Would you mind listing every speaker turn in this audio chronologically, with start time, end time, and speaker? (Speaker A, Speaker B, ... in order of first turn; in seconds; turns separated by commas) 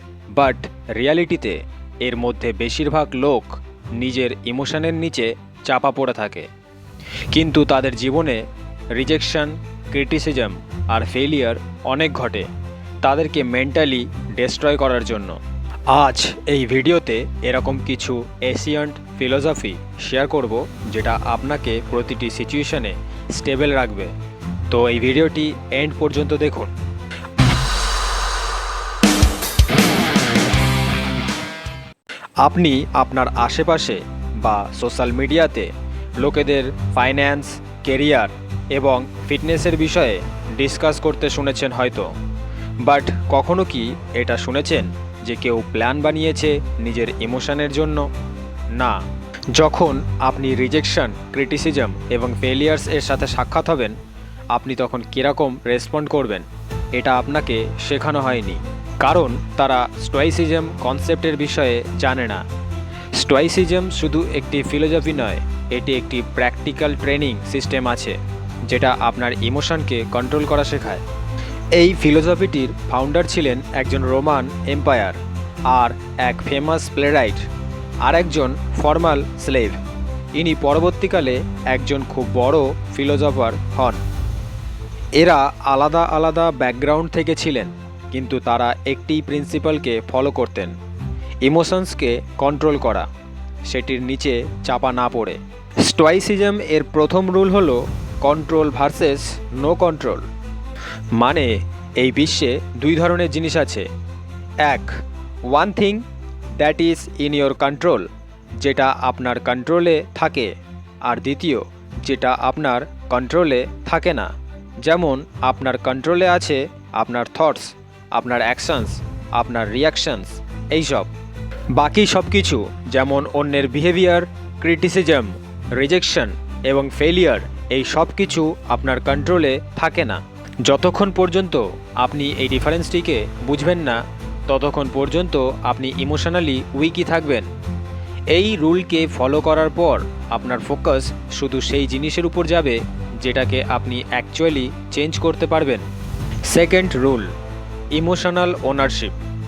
Speaker A: 0.3-6.5, Speaker A: 7.3-12.5, Speaker A: 13.0-15.4, Speaker A: 15.9-24.1, Speaker A: 24.7-26.7, Speaker A: 32.4-42.1, Speaker A: 42.8-48.1, Speaker A: 49.5-54.0, Speaker A: 54.5-62.4, Speaker A: 63.1-71.0, Speaker A: 71.7-77.5, Speaker A: 78.0-79.8, Speaker A: 80.3-84.0, Speaker A: 85.2-90.8, Speaker A: 91.4-93.1, Speaker A: 93.7-100.3, Speaker A: 101.2-103.9, Speaker A: 104.6-104.9, Speaker A: 105.5-106.0, Speaker A: 106.6-108.1, Speaker A: 108.6-110.5, Speaker A: 111.0-121.1, Speaker A: 121.7-137.5, Speaker A: 138.3-145.8, Speaker A: 146.5-147.3, Speaker A: 147.9-149.2